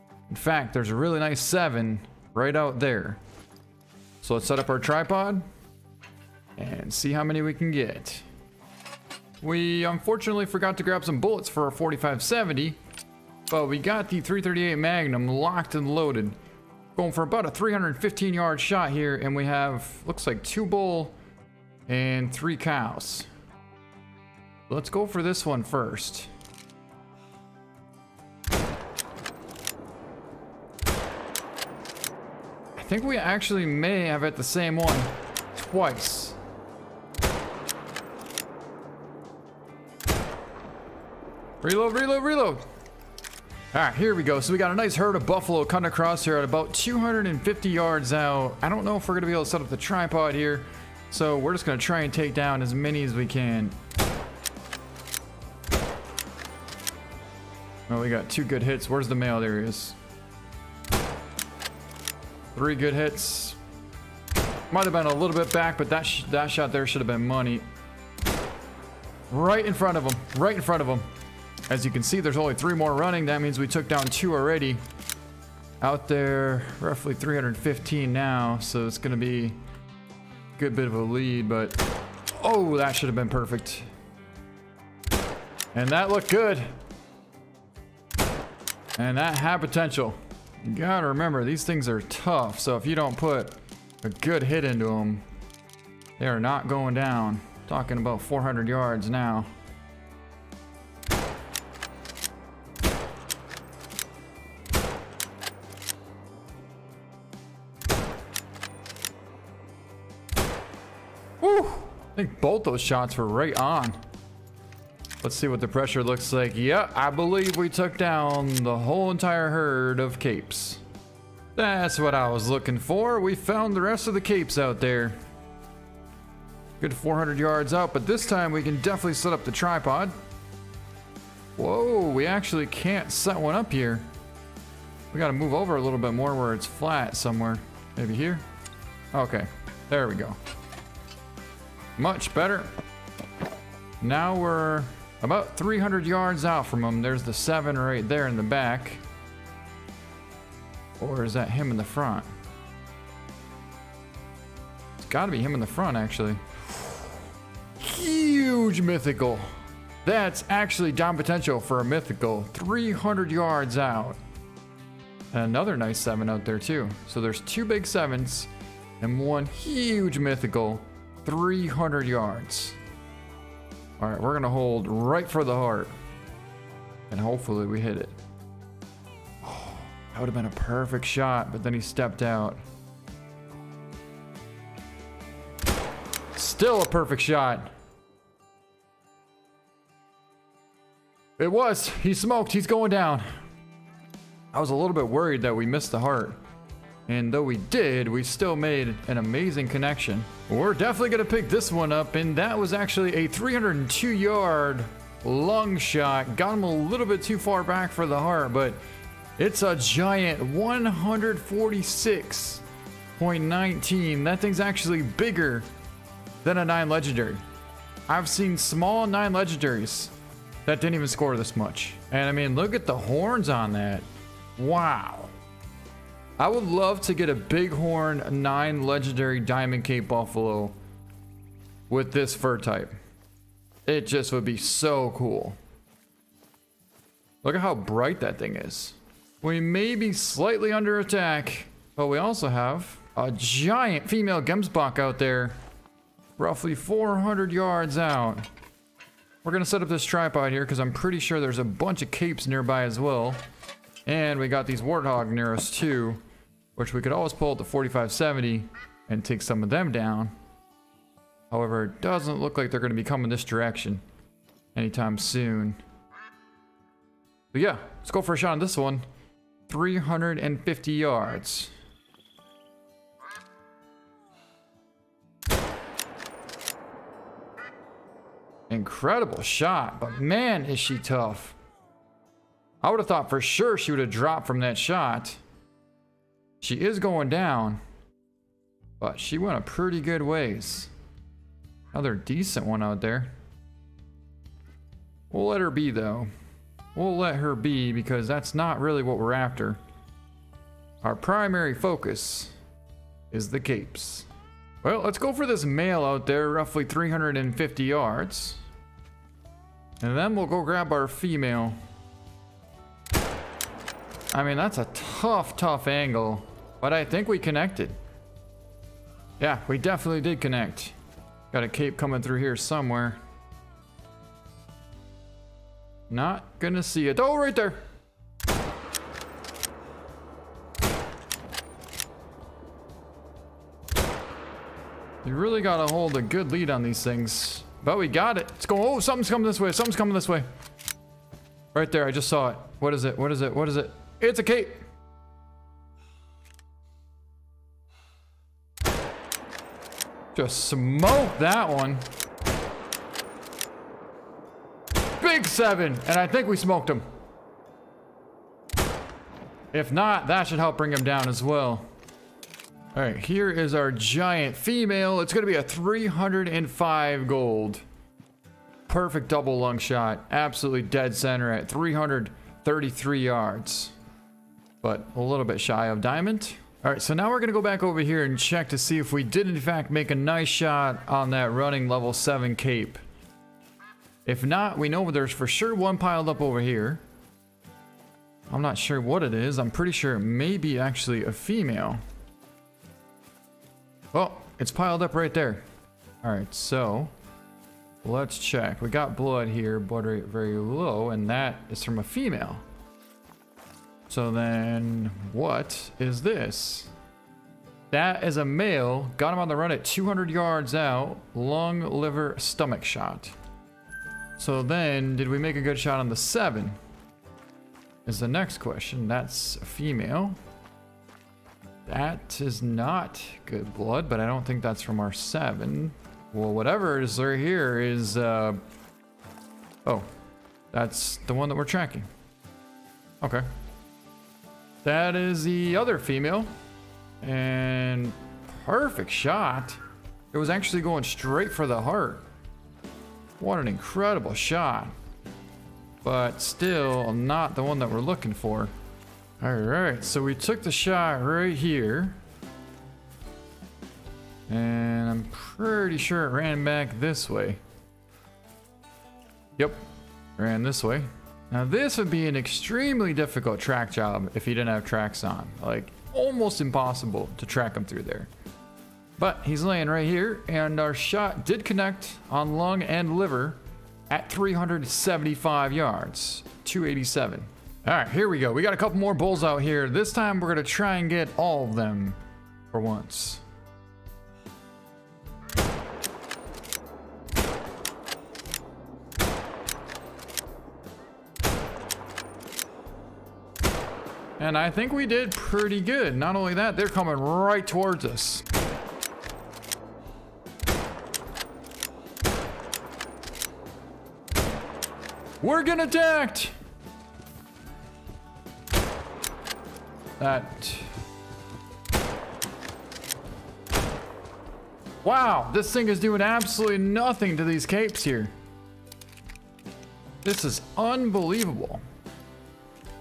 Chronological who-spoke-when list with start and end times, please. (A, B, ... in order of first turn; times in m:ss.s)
0:00.3-0:03.2 A
0:04.2-0:05.5 A
0:06.6-0:08.3 A
0:09.4-0:12.8 A
0:13.5-0:16.4 A
0:17.0-0:21.2 A
0:21.9-0:23.3 A
0:24.7-0:26.3 A
0:32.8-0:36.4 A
0:41.6-0:42.7 A
0:43.7-0:53.8 A
0:57.9-1:00.0 A
1:02.5-1:03.6 A
1:04.7-1:07.7 A
1:09.3-1:11.1 A
1:11.7-1:14.8 A
1:15.8-1:19.6 A
1:20.6-1:21.8 A
1:22.4-1:23.9 A
1:25.7-1:26.7 A
1:29.0-1:35.2 A
1:36.2-1:39.5 A
1:51.4-1:54.0 A
1:55.2-2:00.8 A
2:01.6-2:05.2 A
2:06.8-2:10.1 A
2:11.6-2:14.1 A
2:15.1-2:18.4 A
2:19.1-2:20.4 A
2:22.0-2:22.7 A
2:24.0-2:29.0 A
2:31.0-2:32.3 A
2:35.0-2:37.1 A
2:37.8-2:39.5 A
2:40.0-2:44.2 A
2:45.3-2:52.8 A
2:54.0-2:55.9 A
2:57.1-2:58.2 A
2:59.4-3:02.6 A
3:06.4-3:07.7 A
3:11.4-3:13.3 A
3:14.5-3:16.4 A
3:17.1-3:28.8 A
3:29.4-3:32.6 A
3:33.2-3:35.7 A
3:36.4-3:37.4 A
3:38.1-3:40.1 A
3:40.6-3:44.1 A
3:44.6-3:45.3 A
3:46.4-3:50.8 A
3:51.9-3:53.0 A
3:53.9-3:55.6 A
3:57.4-4:05.6 A
4:06.4-4:08.5 A
4:09.4-4:13.4 A
4:14.1-4:16.2 A
4:16.8-4:20.3 A
4:21.5-4:24.0 A
4:24.8-4:25.8 A
4:27.5-4:29.1 A
4:29.7-4:31.7 A
4:38.7-4:41.6 A
4:42.8-4:45.4 A
4:46.6-4:47.8 A
4:49.0-4:50.9 A
4:51.9-4:53.3 A
4:55.3-4:56.3 A
4:57.0-4:59.8 A
5:01.0-5:02.5 A
5:03.3-5:04.3 A
5:04.8-5:08.6 A
5:10.0-5:11.8 A
5:14.3-5:18.0 A
5:19.4-5:21.0 A
5:21.5-5:23.2 A
5:26.1-5:27.8 A
5:35.2-5:40.5 A
5:41.7-5:44.8 A
5:50.4-5:52.0 A
5:55.2-5:57.0 A
5:59.7-6:01.9 A
6:03.0-6:07.8 A
6:08.9-6:14.0 A
6:14.8-6:23.0 A
6:24.3-6:27.0 A
6:28.5-6:32.0 A
6:34.1-6:35.6 A
6:36.2-6:37.1 A
6:38.0-6:42.6 A
6:44.1-6:46.9 A
6:47.9-6:53.4 A
6:54.4-6:56.8 A
6:58.1-7:00.4 A
7:01.9-7:08.6 A
7:10.7-7:12.1 A
7:13.2-7:13.5 A
7:14.8-7:16.5 A
7:17.2-7:19.8 A
7:20.3-7:22.3 A
7:23.4-7:24.9 A
7:26.0-7:28.7 A
7:29.4-7:32.2 A
7:34.5-7:37.6 A
7:40.4-7:48.3 A
7:49.2-7:53.6 A
7:54.1-8:02.2 A
8:02.7-8:03.4 A
8:14.4-8:18.4 A
8:25.4-8:26.5 A
8:30.2-8:30.9 A
8:35.0-8:38.3 A
8:40.2-8:41.8 A